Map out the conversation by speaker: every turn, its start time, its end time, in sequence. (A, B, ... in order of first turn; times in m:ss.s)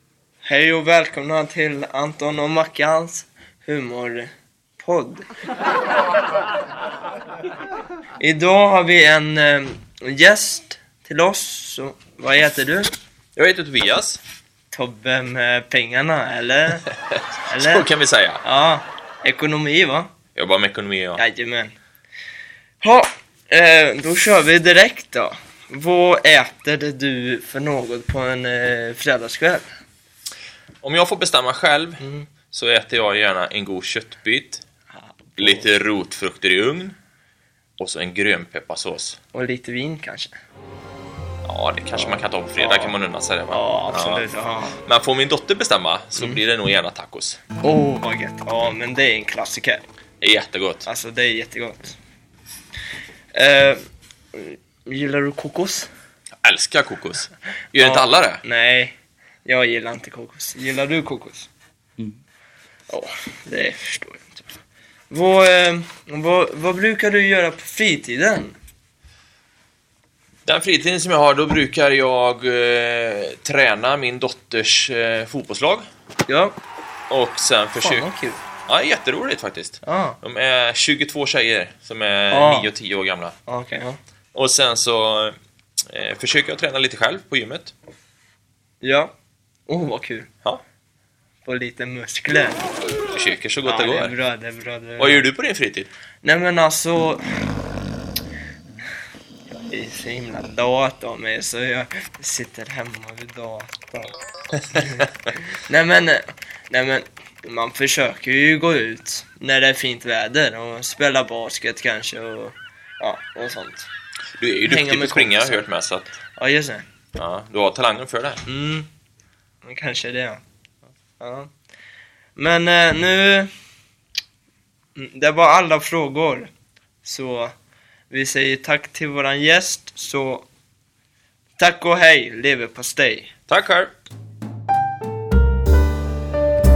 0:00.4-0:05.3 A
0:08.2-0:12.9 A
0:13.4-0:14.2 B
0:14.7-0:16.9 A
0:17.1-0:18.4 B
0:17.5-0:17.9 A
0:18.4-0:20.1 A
0:20.4-0:21.2 B
0:21.2-0:21.8 A
0:22.8-0:29.7 A
0:30.8-0:34.6 B
0:32.0-0:32.3 A
0:35.0-0:35.7 A
0:35.4-0:37.0 B
0:37.8-0:39.2 B
0:39.3-0:40.3 A
0:41.4-0:44.3 B
0:42.0-0:43.0 A
0:43.5-0:44.8 A
0:44.8-0:47.4 B
0:47.6-0:49.8 A
0:50.2-0:50.9 B
0:50.8-0:52.0 A
0:53.3-0:53.8 A
0:54.3-0:55.9 A
0:56.4-0:58.4 B
0:57.8-1:01.5 A
1:02.9-1:04.6 A
1:05.1-1:08.6 A
1:10.5-1:15.8 B
1:16.3-1:16.6 A
1:17.1-1:18.1 B
1:17.8-1:18.4 A
1:18.7-1:23.3 B
1:19.8-1:20.2 A
1:22.3-1:22.7 A
1:23.5-1:24.0 A
1:24.3-1:25.4 B
1:25.9-1:27.7 B
1:28.8-1:29.1 A
1:29.7-1:30.3 A
1:31.4-1:32.6 A
1:33.1-1:34.2 B
1:33.6-1:35.3 A
1:35.0-1:35.9 B
1:36.2-1:37.2 A
1:39.5-1:44.1 A
1:44.8-1:45.0 A
1:45.7-1:53.9 A
1:54.4-1:56.1 B
1:54.6-1:55.7 A
1:56.4-1:56.9 A
1:57.2-1:58.4 B
1:58.4-1:58.9 A
1:59.6-2:00.4 A
2:01.2-2:01.5 A
2:02.4-2:03.5 A
2:05.0-2:06.5 A
2:07.0-2:07.5 A
2:08.1-2:10.5 A
2:11.6-2:13.3 A
2:13.5-2:13.9 B